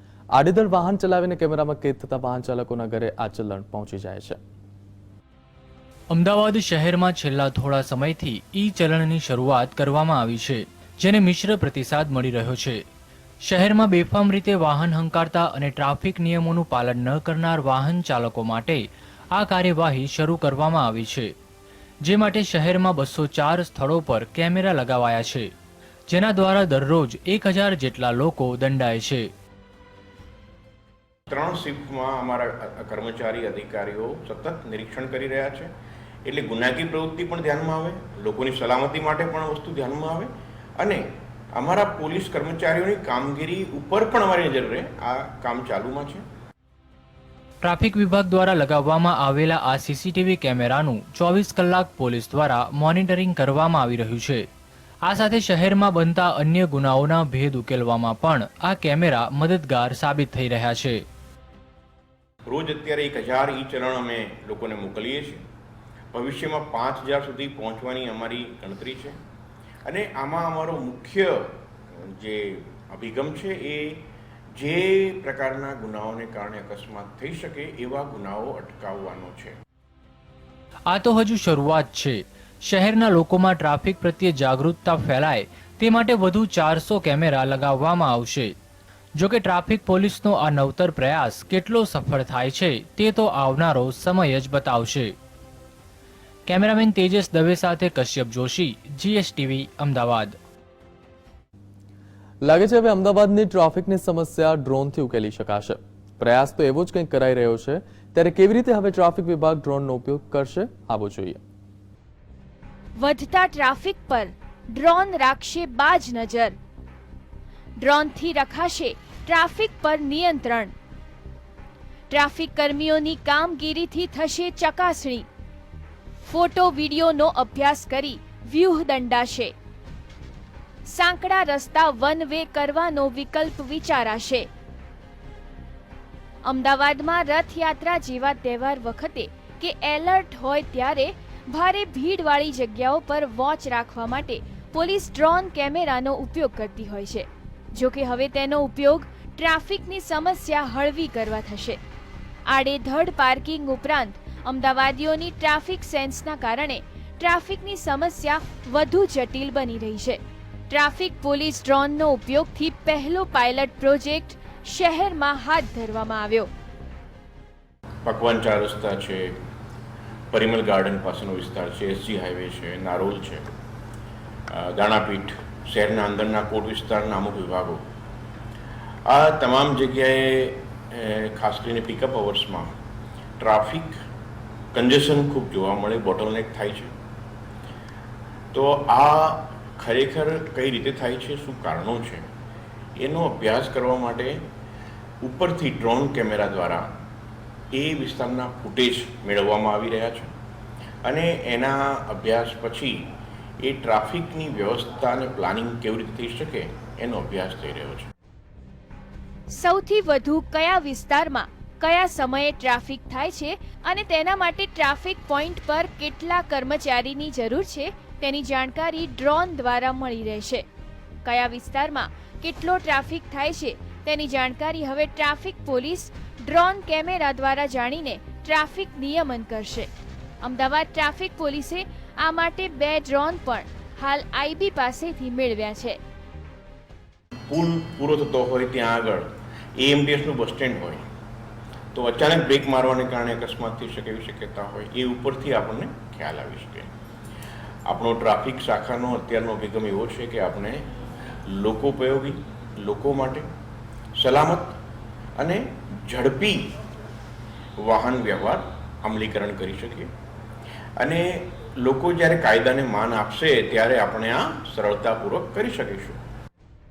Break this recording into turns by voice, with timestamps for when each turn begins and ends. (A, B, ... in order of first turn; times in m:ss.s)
0:00.3-0:04.4 A
0:06.1-0:12.8 B
0:13.5-0:21.3 B
0:22.0-0:25.5 B
0:26.1-0:29.3 B
0:31.3-0:35.7 C
0:36.2-0:46.2 C
0:47.6-0:54.4 B
0:55.1-1:01.0 B
1:02.5-1:05.4 C
1:06.1-1:09.2 C
1:09.8-1:19.6 C
1:20.9-1:28.5 B
1:29.2-1:35.1 B
1:36.5-1:40.4 B
1:42.4-1:51.4 A
1:53.0-1:56.6 D
1:57.8-2:00.7 D
2:02.1-2:05.3 D
2:06.3-2:09.5 D
2:10.8-2:14.5 D
2:16.5-2:31.8 D
2:32.5-2:40.2 D
2:40.7-2:46.5 D
2:48.0-2:49.4 C
2:50.3-2:53.4 C
2:54.5-2:57.8 C
2:59.1-3:02.8 C
3:03.4-3:04.0 C
3:04.7-3:06.9 C
3:08.5-3:12.3 C
3:13.0-3:14.4 C
3:15.2-3:16.9 C
3:17.7-3:20.3 C
3:21.0-3:28.1 C
3:29.5-3:40.6 D
3:41.2-3:56.0 D
3:57.5-4:01.0 C
4:01.9-4:06.9 C
4:07.9-4:10.9 C
4:11.5-4:13.5 C
4:14.2-4:14.8 C
4:15.4-4:16.8 C
4:17.8-4:20.1 C
4:21.0-4:26.2 C